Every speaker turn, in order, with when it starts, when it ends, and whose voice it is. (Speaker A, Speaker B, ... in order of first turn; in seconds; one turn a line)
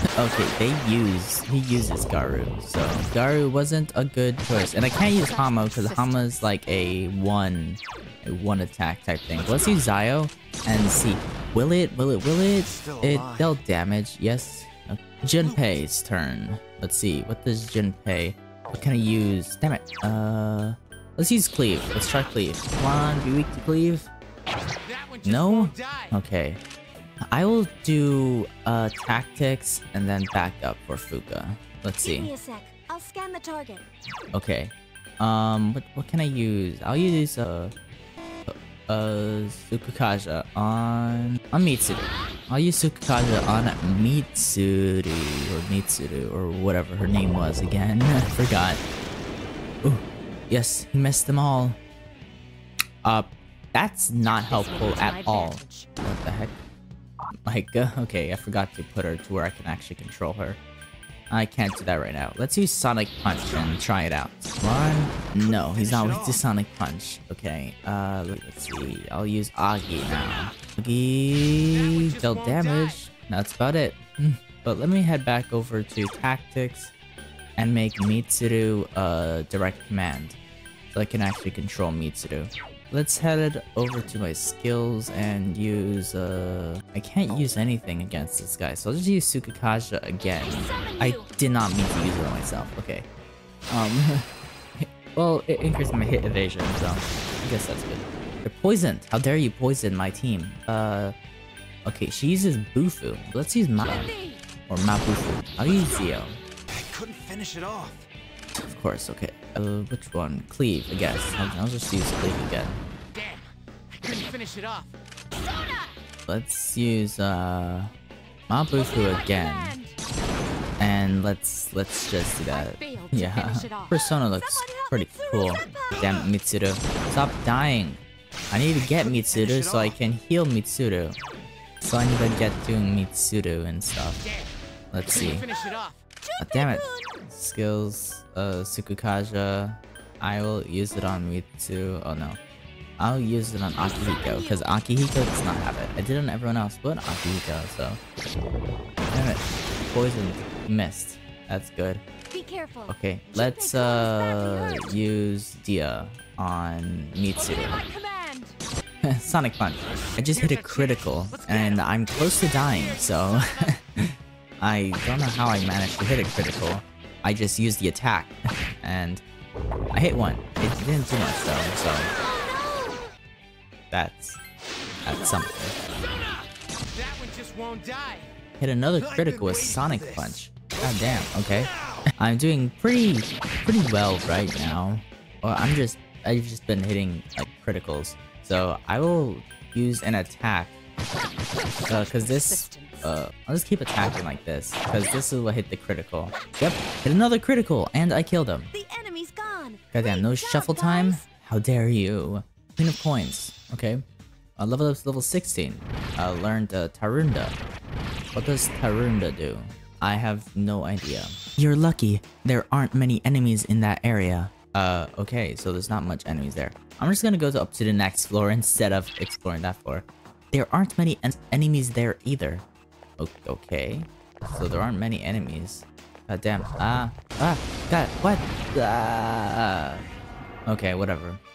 Speaker A: 0.1-24.1
Speaker B: 5.0-6.5
Speaker C: 12.6-13.6
Speaker C: 15.4-15.7
Speaker B: 24.8-26.1
Speaker A: 25.2-26.6
Speaker A: 27.3-32.3
Speaker D: 32.0-33.9
Speaker A: 34.3-37.7
Speaker A: 38.5-48.8
Speaker A: 49.8-51.8
Speaker A: 53.0-56.6
Speaker B: 54.5-55.8
Speaker A: 57.5-60.6
Speaker A: 61.3-76.9
Speaker C: 65.3-66.4
Speaker B: 71.7-73.0
Speaker A: 77.6-80.4
Speaker A: 80.9-93.1
Speaker D: 90.5-91.2
Speaker A: 93.7-101.1
Speaker A: 101.8-104.1
Speaker B: 103.8-104.4
Speaker A: 104.7-106.4
Speaker C: 106.7-108.1
Speaker A: 108.6-112.8
Speaker B: 113.1-116.0
Speaker A: 116.3-117.9
Speaker A: 118.5-119.8
Speaker B: 118.7-120.0
Speaker A: 120.8-131.2
Speaker B: 122.5-124.2
Speaker D: 124.3-126.1
Speaker C: 129.0-129.9
Speaker A: 131.8-134.2
Speaker B: 134.2-134.5
Speaker A: 134.9-135.4
Speaker B: 135.1-136.0
Speaker D: 136.2-137.2
Speaker A: 136.4-142.4
Speaker A: 143.0-148.0
Speaker D: 144.2-144.5
Speaker A: 149.1-152.0
Speaker D: 152.3-155.0
Speaker A: 152.9-157.8
Speaker B: 157.3-158.6
Speaker A: 159.0-169.2
Speaker B: 160.2-163.8
Speaker A: 169.9-172.1
Speaker D: 172.2-173.1
Speaker A: 173.9-174.4
Speaker A: 175.0-175.8
Speaker B: 176.9-178.3
Speaker A: 178.6-190.8
Speaker C: 178.9-182.1
Speaker D: 191.2-191.9
Speaker A: 191.9-198.7
Speaker B: 191.9-193.1
Speaker D: 198.7-201.2
Speaker A: 199.9-204.0
Speaker A: 204.6-207.6
Speaker A: 208.3-222.6
Speaker A: 223.2-230.0
Speaker A: 230.7-231.4